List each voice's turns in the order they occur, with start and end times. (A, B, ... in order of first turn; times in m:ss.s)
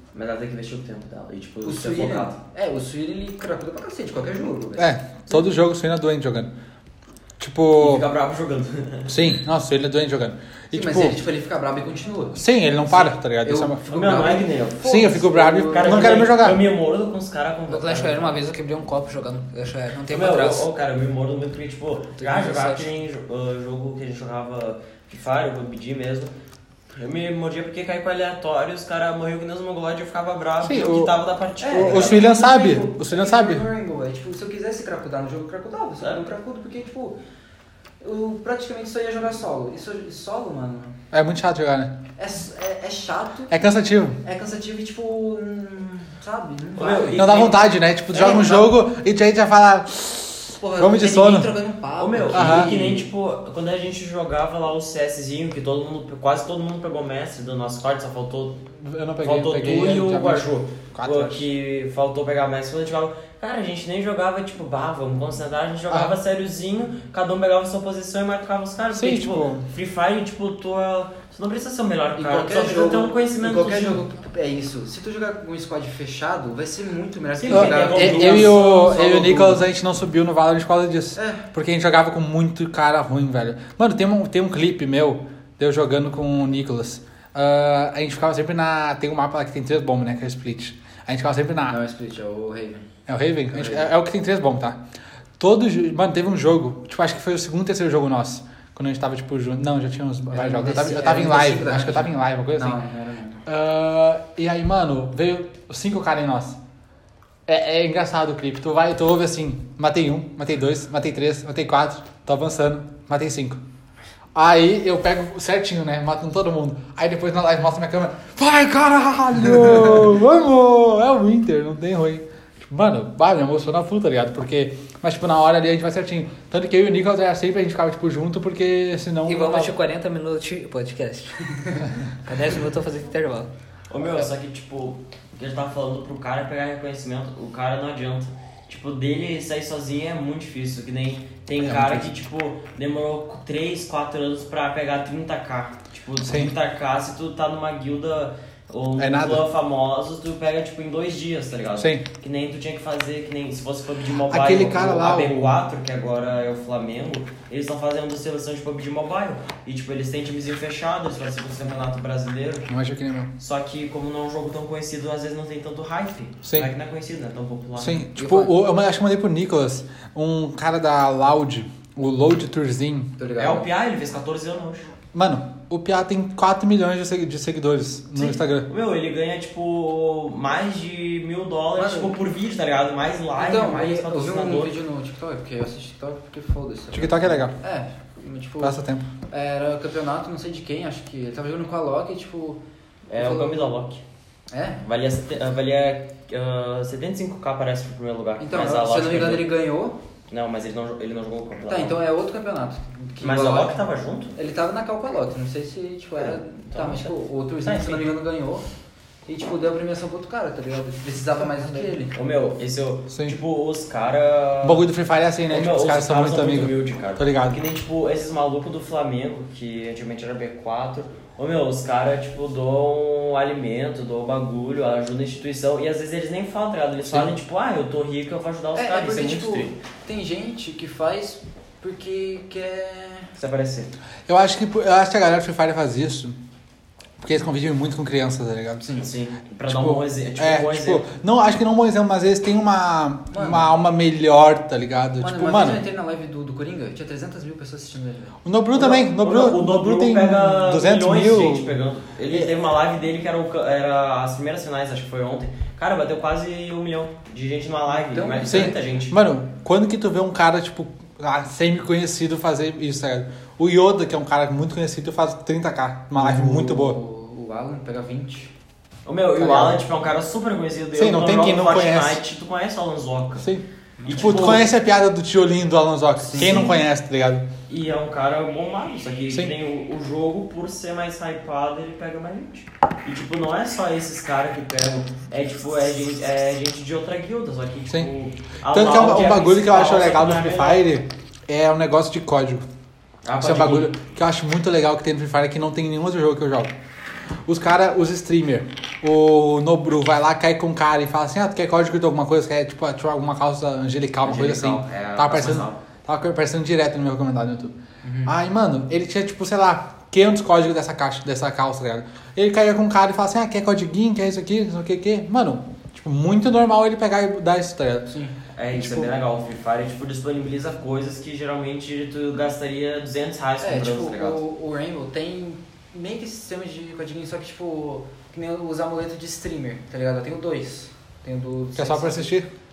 0:00.1-0:02.4 A
0:01.6-0:05.4 B
0:04.8-0:06.5 C
0:07.4-0:08.1 C
0:07.8-0:09.2 A
0:09.1-0:11.2 C
0:10.7-0:16.3 B
0:12.3-0:13.8 C
0:13.9-0:14.9 A
0:14.8-0:16.7 C
0:15.7-0:18.4 A
0:17.7-0:20.7 D
0:20.1-0:26.3 A
0:22.2-0:22.9 D
0:26.9-0:32.3 A
0:30.6-0:31.2 C
0:31.6-0:37.2 B
0:31.7-0:33.6 C
0:36.0-0:36.3 A
0:38.0-0:41.0 B
0:41.1-0:42.0 C
0:42.2-0:43.6 B
0:43.5-0:44.2 C
0:44.2-0:47.5 B
0:46.8-0:47.6 A
0:47.1-0:51.5 C
0:48.1-0:48.8 B
0:50.6-0:53.1 B
0:52.0-0:58.6 A
0:52.3-0:52.8 C
0:58.8-1:01.5 C
0:59.2-1:14.0 A
1:05.9-1:06.2 C
1:08.9-1:09.7 C
1:12.2-1:19.6 B
1:17.4-1:18.7 A
1:17.5-1:31.8 C
1:21.2-1:21.4 B
1:31.7-1:32.9 B
1:33.1-1:34.8 C
1:33.5-1:33.9 B
1:35.4-1:42.8 C
1:40.3-1:43.4 B
1:43.5-1:46.6 C
1:47.5-1:53.6 C
1:54.4-2:09.8 C
2:09.3-2:13.5 D
2:13.9-2:42.7 A
2:21.6-2:22.1 C
2:26.2-2:26.5 C
2:29.0-2:29.5 C
2:31.8-2:32.1 C
2:34.3-2:35.5 C
2:42.7-2:43.3 C
2:43.4-2:48.1 A
2:46.4-2:46.7 C
2:47.8-2:53.2 C
2:53.2-2:53.7 B
2:53.4-2:54.9 A
2:55.1-2:58.7 C
2:58.2-3:04.7 A
3:01.8-3:02.2 B
3:03.4-3:12.6 B
3:06.9-3:07.6 C
3:08.6-3:09.1 C
3:13.1-3:14.0 A
3:13.2-3:13.7 B
3:14.5-3:14.8 B
3:14.8-3:19.5 A
3:18.4-3:20.0 B
3:20.3-3:22.0 A
3:21.7-3:23.8 B
3:23.2-3:24.4 A
3:24.4-3:28.7 B
3:26.2-3:28.1 A
3:29.3-3:32.2 B
3:32.1-3:34.8 A
3:33.1-3:33.4 C
3:34.6-3:37.6 C
3:35.5-3:49.8 A
3:47.0-3:47.4 C
3:48.8-3:53.3 B
3:53.4-3:53.9 A
3:54.3-3:56.4 C
3:57.2-3:58.9 C
3:58.9-4:01.1 A
3:59.7-4:05.8 C
4:03.3-4:03.7 B
4:05.2-4:08.4 B
4:08.4-4:11.8 C
4:08.8-4:19.2 A
4:17.9-4:18.8 B
4:18.4-4:27.0 C
4:26.2-4:28.5 B
4:29.0-4:33.5 A
4:29.4-4:29.8 C
4:30.9-4:32.2 C
4:33.4-4:37.5 C
4:34.0-4:34.6 B
4:34.1-4:34.7 A
4:36.2-4:36.8 B
4:36.4-4:36.7 A
4:37.7-4:50.8 A
4:48.7-4:52.6 C
4:53.2-4:53.9 A
4:53.4-4:56.7 C
4:57.4-5:18.1 C
5:04.2-5:05.8 A
5:08.0-5:08.4 B
5:18.1-5:18.4 B
5:18.6-5:24.4 A
5:18.7-5:19.1 C
5:23.6-5:32.4 B
5:31.8-5:32.5 C